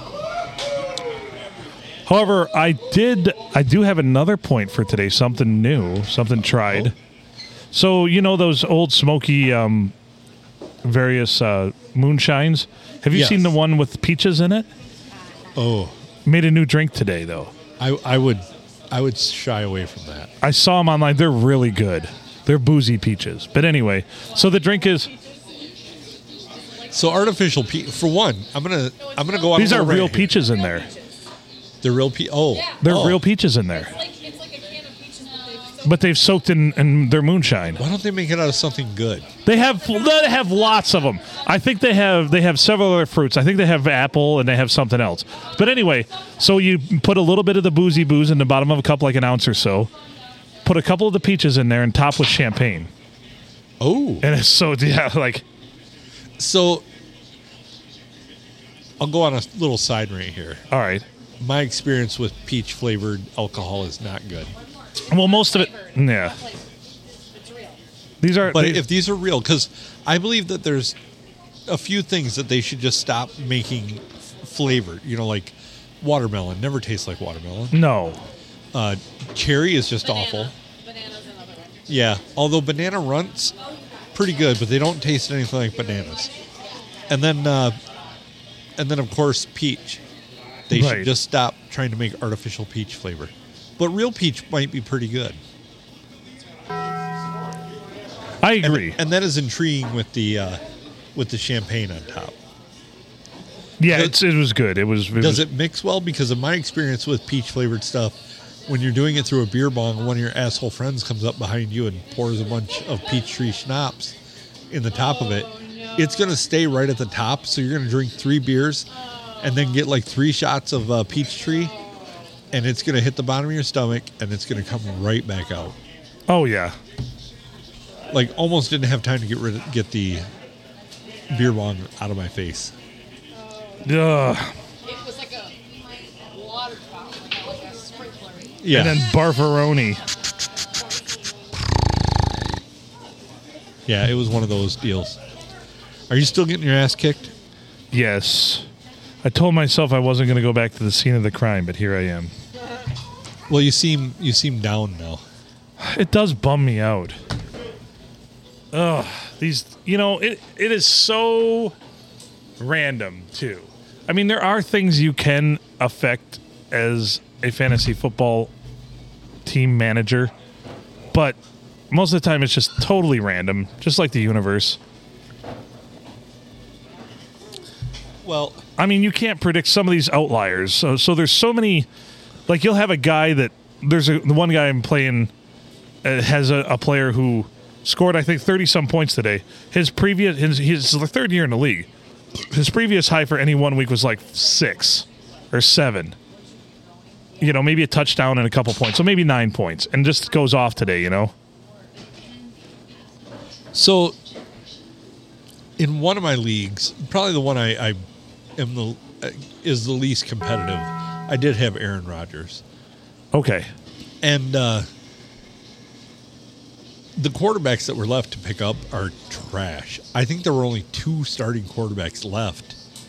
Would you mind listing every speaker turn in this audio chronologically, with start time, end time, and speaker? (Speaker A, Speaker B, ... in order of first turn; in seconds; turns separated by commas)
Speaker A: 2.1-7.0, Speaker B: 6.5-6.9, Speaker A: 7.7-9.9, Speaker A: 10.8-14.7, Speaker B: 13.1-13.6, Speaker B: 15.6-15.9, Speaker A: 16.3-17.5, Speaker B: 17.8-20.3, Speaker A: 20.4-25.1, Speaker B: 26.9-30.4, Speaker C: 29.1-29.5, Speaker A: 29.6-30.9, Speaker B: 31.8-33.2, Speaker A: 32.8-34.0, Speaker C: 33.9-36.0, Speaker A: 35.8-37.8, Speaker B: 37.8-39.3, Speaker A: 39.5-49.9, Speaker A: 50.6-52.9, Speaker B: 53.8-54.3, Speaker A: 54.2-55.4, Speaker B: 56.4-56.9, Speaker B: 59.0-60.6, Speaker A: 60.7-61.0, Speaker B: 61.4-64.5, Speaker A: 65.1-66.4, Speaker C: 65.2-67.8, Speaker A: 68.2-68.8, Speaker B: 68.4-71.0, Speaker B: 71.7-77.8, Speaker A: 77.7-78.2, Speaker B: 78.7-80.5, Speaker C: 80.1-81.9, Speaker B: 81.9-83.6, Speaker B: 84.1-86.3, Speaker B: 87.1-87.8, Speaker B: 88.8-90.0, Speaker B: 90.7-95.4, Speaker A: 90.7-91.1, Speaker A: 98.4-99.0, Speaker B: 98.6-100.6, Speaker B: 101.2-102.4, Speaker A: 103.8-105.5, Speaker B: 103.9-104.2, Speaker B: 105.2-114.2, Speaker B: 114.7-118.9, Speaker C: 115.4-116.0, Speaker B: 119.4-121.7, Speaker B: 122.5-125.8, Speaker A: 126.3-126.8, Speaker B: 128.1-130.3, Speaker B: 131.3-132.7, Speaker C: 133.4-133.8, Speaker A: 133.8-134.5, Speaker C: 134.8-138.6, Speaker B: 138.6-139.0, Speaker A: 138.7-140.0, Speaker B: 143.9-145.2, Speaker B: 146.1-147.3, Speaker A: 147.9-148.7, Speaker A: 149.2-152.3, Speaker B: 153.5-155.2, Speaker A: 155.8-157.2, Speaker A: 158.7-161.8, Speaker A: 162.6-168.5, Speaker A: 169.4-170.3, Speaker A: 171.1-171.4, Speaker A: 171.9-174.8, Speaker B: 178.2-178.6, Speaker A: 178.8-181.9, Speaker A: 182.5-185.3, Speaker A: 186.0-191.9, Speaker A: 192.5-196.2, Speaker A: 197.4-201.3, Speaker B: 203.7-204.2, Speaker B: 205.8-208.0, Speaker B: 208.6-212.6, Speaker A: 213.3-213.7, Speaker B: 214.2-214.9, Speaker B: 217.2-222.8